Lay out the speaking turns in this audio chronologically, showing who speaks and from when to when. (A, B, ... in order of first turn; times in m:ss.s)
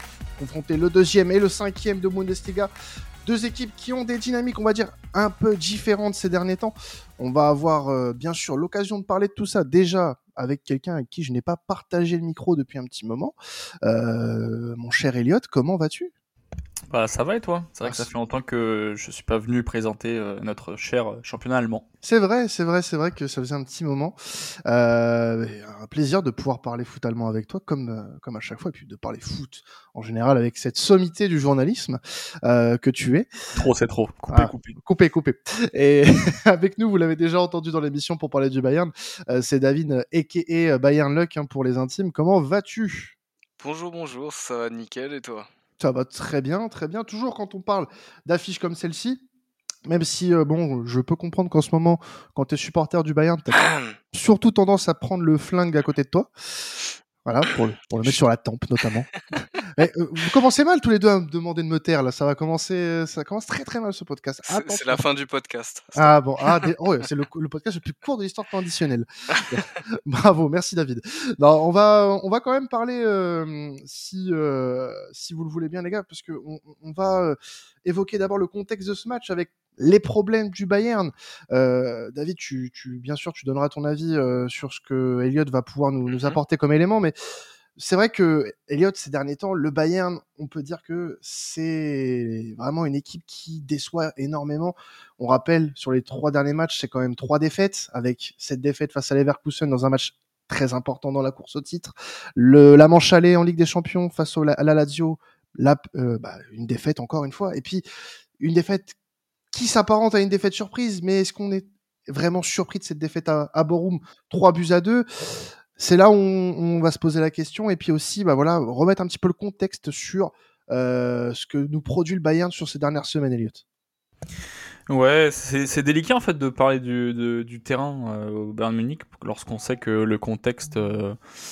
0:00.4-0:02.7 A
0:03.2-0:16.1 A
0:16.9-0:21.8 B
0:17.8-0:18.1 A
0:22.0-0:33.3 A
0:33.5-0:34.8 B
0:34.3-0:43.1 A
0:43.6-0:45.5 C
0:45.8-0:49.2 A
0:49.9-0:53.6 A
0:53.5-0:53.9 C
0:54.1-1:05.0 A
1:04.4-1:06.7 C
1:06.0-1:27.1 A
1:26.1-1:26.4 C
1:27.8-1:47.8 A
1:48.4-1:48.9 A
1:49.5-2:03.6 A
2:04.9-2:11.2 B